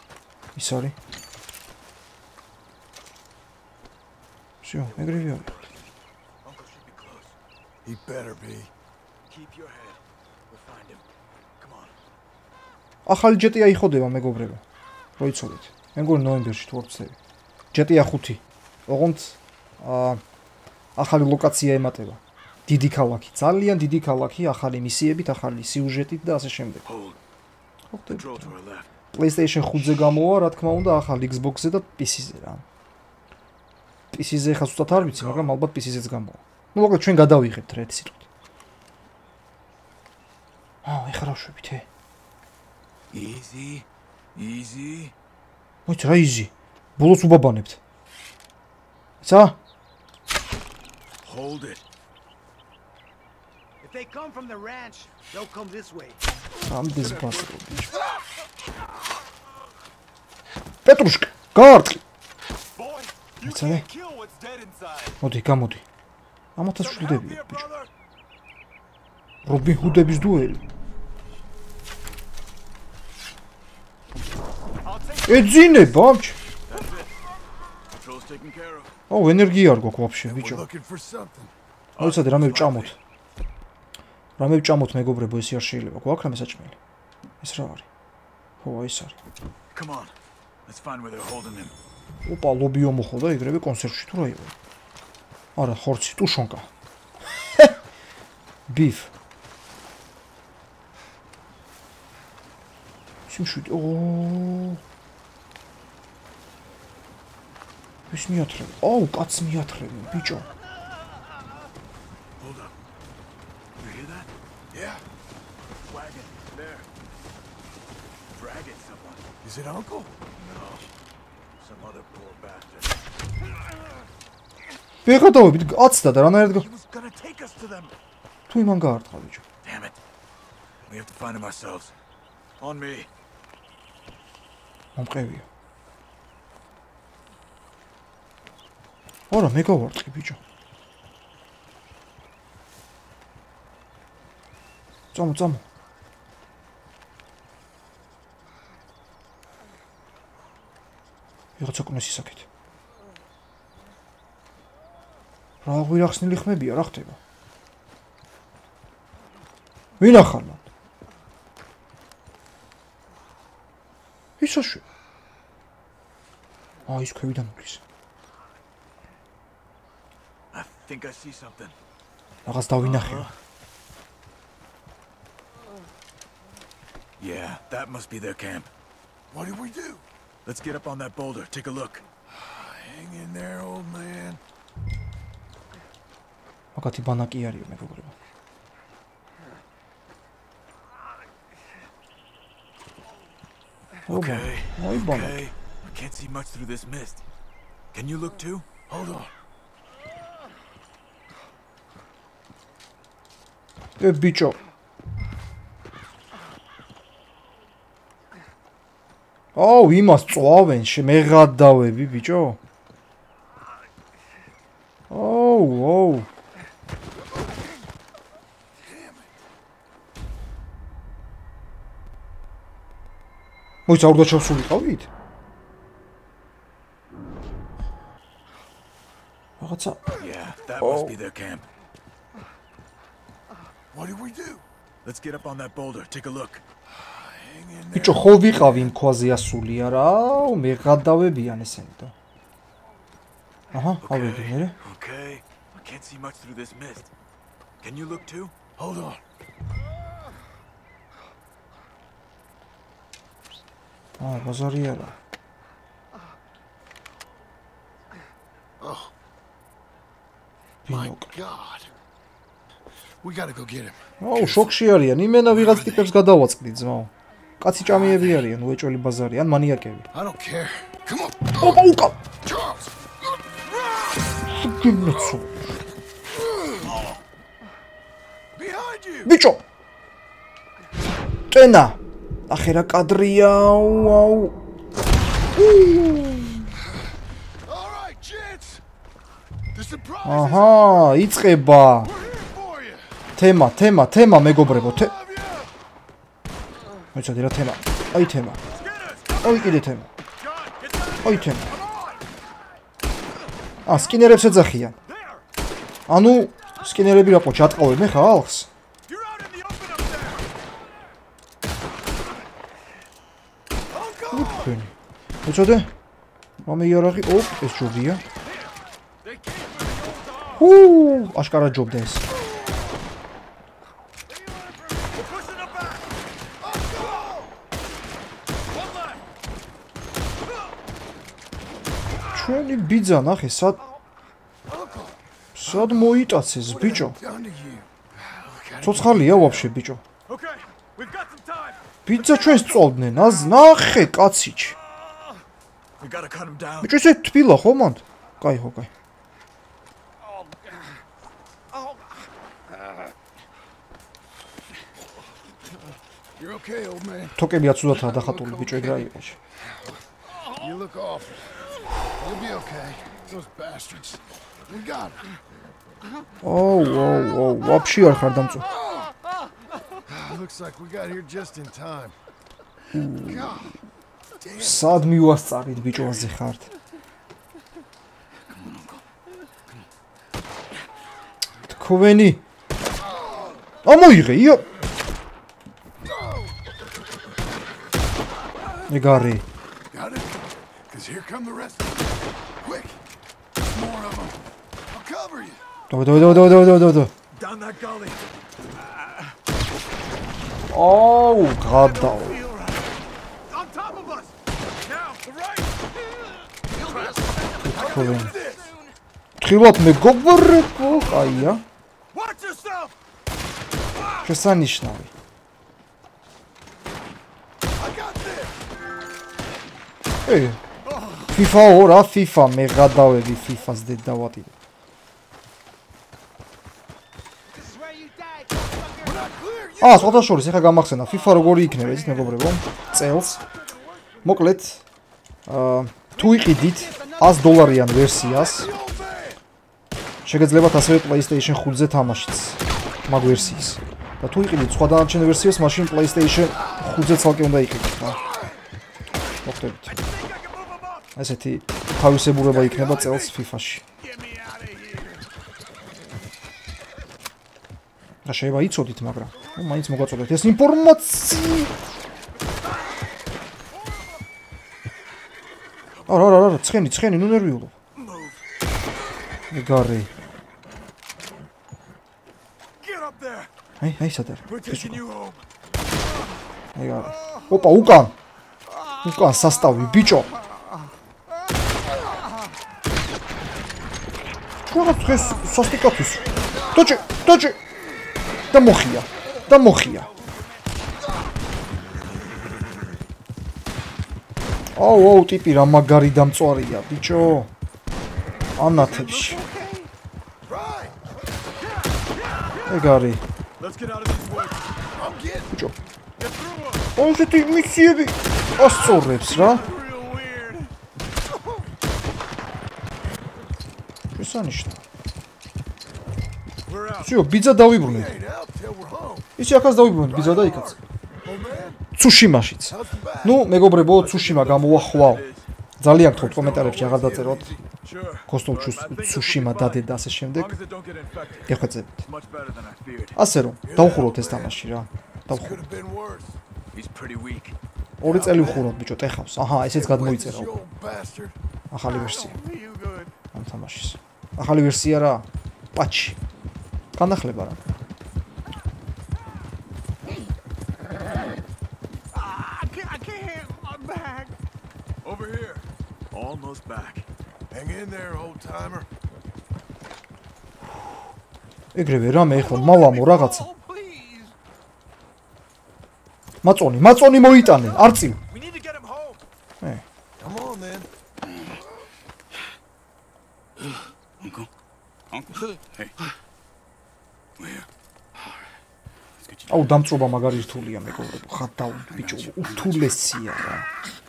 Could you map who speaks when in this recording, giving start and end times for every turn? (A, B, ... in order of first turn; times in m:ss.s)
0:00.6-0:01.0 A
0:04.6-0:05.5 A
0:04.8-0:05.8 B
0:06.4-0:07.3 B
0:07.8-0:08.7 C
0:09.3-0:11.0 B
0:11.6-0:12.0 B
0:13.0-0:14.6 A
0:15.2-0:17.2 A
0:17.7-0:20.2 A
0:21.0-0:26.8 A
0:26.8-0:27.2 B
0:27.9-0:28.6 A
0:28.1-0:28.9 B
0:29.1-0:32.6 A
0:34.1-0:38.2 A
0:34.9-0:35.5 B
0:40.8-0:41.9 A
0:43.1-0:45.1 B
0:45.9-0:47.8 A
0:49.2-0:49.6 A
0:51.2-0:51.8 B
0:53.8-0:55.7 B
0:54.2-0:56.2 D
0:56.6-0:57.9 A
0:57.1-0:57.4 B
1:00.8-1:02.0 A
1:02.7-1:05.2 B
1:03.4-1:03.9 A
1:05.2-1:05.8 A
1:06.6-1:07.7 A
1:06.8-1:07.9 B
1:09.4-1:10.6 A
1:14.8-1:15.7 B
1:15.2-1:16.4 A
1:16.7-1:17.1 B
1:17.9-1:18.9 B
1:19.1-1:20.6 A
1:20.2-1:21.5 C
1:22.0-1:23.0 A
1:22.0-1:23.0 B
1:24.4-1:26.8 A
1:27.4-1:27.9 A
1:28.6-1:29.1 A
1:29.7-1:30.1 B
1:30.7-1:31.7 B
1:32.2-1:34.5 A
1:35.6-1:36.7 A
1:38.7-1:39.1 A
1:43.3-1:44.8 A
1:48.1-1:50.5 A
1:52.4-1:52.8 B
1:53.8-1:54.3 B
1:54.7-1:55.0 C
1:55.9-1:56.9 B
1:58.3-1:59.2 B
1:59.4-2:00.6 C
2:00.4-2:00.8 B
2:01.6-2:03.0 B
2:05.0-2:06.7 A
2:06.5-2:08.0 B
2:08.5-2:09.4 A
2:09.6-2:10.0 B
2:10.9-2:11.9 B
2:12.6-2:13.1 B
2:15.0-2:15.4 A
2:19.3-2:20.4 A
2:25.1-2:25.6 A
2:31.6-2:32.4 A
2:35.6-2:37.2 A
2:40.0-2:40.6 A
2:44.4-2:44.8 A
2:46.9-2:47.8 A
2:50.5-2:51.8 B
2:52.4-2:53.3 A
2:52.8-2:53.3 B
2:57.2-2:58.7 B
2:59.3-3:00.0 C
3:00.4-3:02.1 B
3:02.3-3:04.4 C
3:06.8-3:08.1 A
3:14.1-3:17.2 B
3:14.1-3:15.4 A
3:17.9-3:18.7 B
3:18.9-3:19.3 C
3:24.0-3:24.6 A
3:29.6-3:32.6 A
3:35.1-3:36.3 A
3:38.8-3:39.3 C
3:43.9-3:45.1 A
3:49.6-3:50.0 A
3:50.2-3:51.6 B
3:50.8-3:51.1 A
3:53.9-3:54.6 C
3:55.0-3:56.6 B
3:56.9-3:58.9 C
3:57.9-4:02.1 A
4:03.7-4:04.8 A
4:04.0-4:07.1 B
4:07.8-4:08.5 B
4:08.8-4:09.2 C
4:14.2-4:15.1 A
4:18.8-4:19.1 C
4:20.9-4:21.3 A
4:20.9-4:21.9 C
4:23.2-4:24.8 C
4:24.2-4:30.1 A
4:25.6-4:26.0 C
4:27.9-4:28.3 C
4:30.1-4:31.9 C
4:31.6-4:32.2 A
4:32.4-4:32.9 C
4:33.7-4:34.3 C
4:34.4-4:35.8 A
4:36.5-4:36.9 C
4:36.8-4:37.2 B
4:38.6-4:39.3 C
4:39.2-4:39.6 A
4:41.5-4:44.6 A
4:45.6-4:46.7 A
4:47.6-4:48.8 C
4:49.7-4:51.2 C
4:50.2-4:52.1 A
4:52.0-4:53.1 C
4:53.4-4:55.1 A
4:54.6-4:55.7 C
4:57.1-4:58.6 A
4:58.7-4:59.8 B
4:59.4-5:00.1 A
5:00.4-5:02.2 B
5:01.2-5:01.7 A
5:03.8-5:04.9 A
5:05.1-5:05.4 B
5:06.1-5:08.7 A
5:09.1-5:10.5 B
5:13.9-5:14.7 C
5:14.3-5:14.9 A
5:15.4-5:15.9 A
5:16.6-5:18.2 A
5:18.4-5:18.7 B
5:19.2-5:20.7 B
5:20.6-5:22.2 A
5:24.3-5:26.0 B
5:26.6-5:27.6 C
5:28.7-5:29.2 B
5:32.3-5:33.8 A
5:34.7-5:36.1 C
5:35.6-5:37.2 A
5:36.6-5:39.7 C
5:38.8-5:40.0 A
5:40.3-5:41.8 B
5:42.0-5:44.7 A
5:46.0-5:47.0 B
5:46.8-5:48.9 A
5:56.4-5:57.4 C
5:57.4-5:59.4 A
5:57.9-5:59.0 C
6:00.5-6:01.4 C
6:02.2-6:05.2 C
6:06.4-6:08.7 A
6:08.7-6:09.1 C
6:10.1-6:12.2 C
6:12.9-6:13.6 A
6:13.2-6:13.8 C
6:14.4-6:15.1 C
6:14.6-6:16.7 A
6:18.5-6:19.0 B
6:21.6-6:22.4 A
6:23.0-6:23.7 C
6:23.8-6:24.7 A
6:26.0-6:26.5 C
6:28.9-6:29.4 A
6:29.9-6:33.0 C
6:33.7-6:34.4 C
6:34.9-6:35.6 C
6:35.9-6:37.1 A
6:37.3-6:39.3 B
6:40.7-6:42.4 A
6:41.6-6:42.9 B
6:43.5-6:45.7 B
6:46.7-6:48.7 B
6:47.2-6:48.4 D
6:47.6-6:48.3 A
6:47.8-6:48.4 C
6:49.4-6:51.6 A
6:51.2-6:51.4 B
6:52.1-6:52.9 B
6:54.0-6:54.3 B
6:54.2-6:55.1 A
6:57.8-6:58.5 C
7:00.3-7:00.6 A
7:00.8-7:01.4 B
7:01.3-7:04.5 A
7:07.9-7:09.2 D
7:09.0-7:10.3 C
7:09.8-7:13.4 A
7:11.3-7:12.0 B
7:14.2-7:14.8 A
7:15.5-7:18.7 A
7:16.2-7:17.5 D
7:18.1-7:19.4 C
7:20.2-7:28.2 A
7:29.4-7:30.0 A
7:29.9-7:31.1 B
7:31.2-7:33.8 A
7:32.6-7:32.9 C
7:32.7-7:33.3 B
7:34.0-7:35.3 B
7:38.2-7:41.7 A
7:46.0-7:46.3 B
7:46.1-7:47.7 A
7:47.9-7:48.4 B
7:49.5-7:50.1 A
7:52.8-7:53.5 B
7:53.8-7:55.0 A
7:54.5-7:55.4 B
7:56.8-7:58.1 A
7:57.2-7:57.5 B
7:58.7-7:59.0 B
7:59.0-8:00.3 A
8:04.7-8:07.6 A
8:08.5-8:10.1 A
8:14.8-8:17.5 A
8:18.6-8:19.4 A
8:18.6-8:19.9 B
8:20.4-8:21.0 C
8:21.6-8:22.9 B
8:22.7-8:23.2 A
8:23.6-8:24.7 B
8:25.0-8:25.5 C
8:26.2-8:26.9 B
8:27.0-8:29.7 A
8:28.5-8:30.7 B
8:34.1-8:34.8 A
8:36.7-8:37.2 B
8:37.0-8:38.2 A
8:37.7-8:39.3 C
8:39.4-8:40.8 A
8:40.1-8:41.8 C
8:41.9-8:45.2 A
8:42.7-8:43.5 C
8:43.9-8:45.5 B
8:45.8-8:47.6 A
8:46.0-8:47.6 C
8:47.8-8:53.2 B
8:48.3-8:50.6 A
8:51.5-8:52.0 A
8:53.2-8:55.6 A
8:53.6-8:54.6 C
8:55.3-8:56.4 C
8:56.7-8:57.6 B
8:58.0-9:00.5 A
8:58.0-8:58.7 C
8:59.7-9:01.4 C
9:01.7-9:02.4 A
9:01.9-9:03.1 B
9:03.3-9:06.2 A
9:06.9-9:07.6 A
9:12.1-9:14.3 B
9:15.0-9:17.1 B
9:17.5-9:18.9 C
9:21.7-9:23.5 A
9:22.4-9:24.3 D
9:23.4-9:23.8 B
9:26.4-9:28.2 A
9:28.3-9:29.2 B
9:30.2-9:30.9 C
9:34.2-9:34.5 B
9:35.1-9:36.0 B
9:37.4-9:37.7 B
9:39.2-9:39.8 B
9:39.5-9:43.7 A
9:41.9-9:42.9 B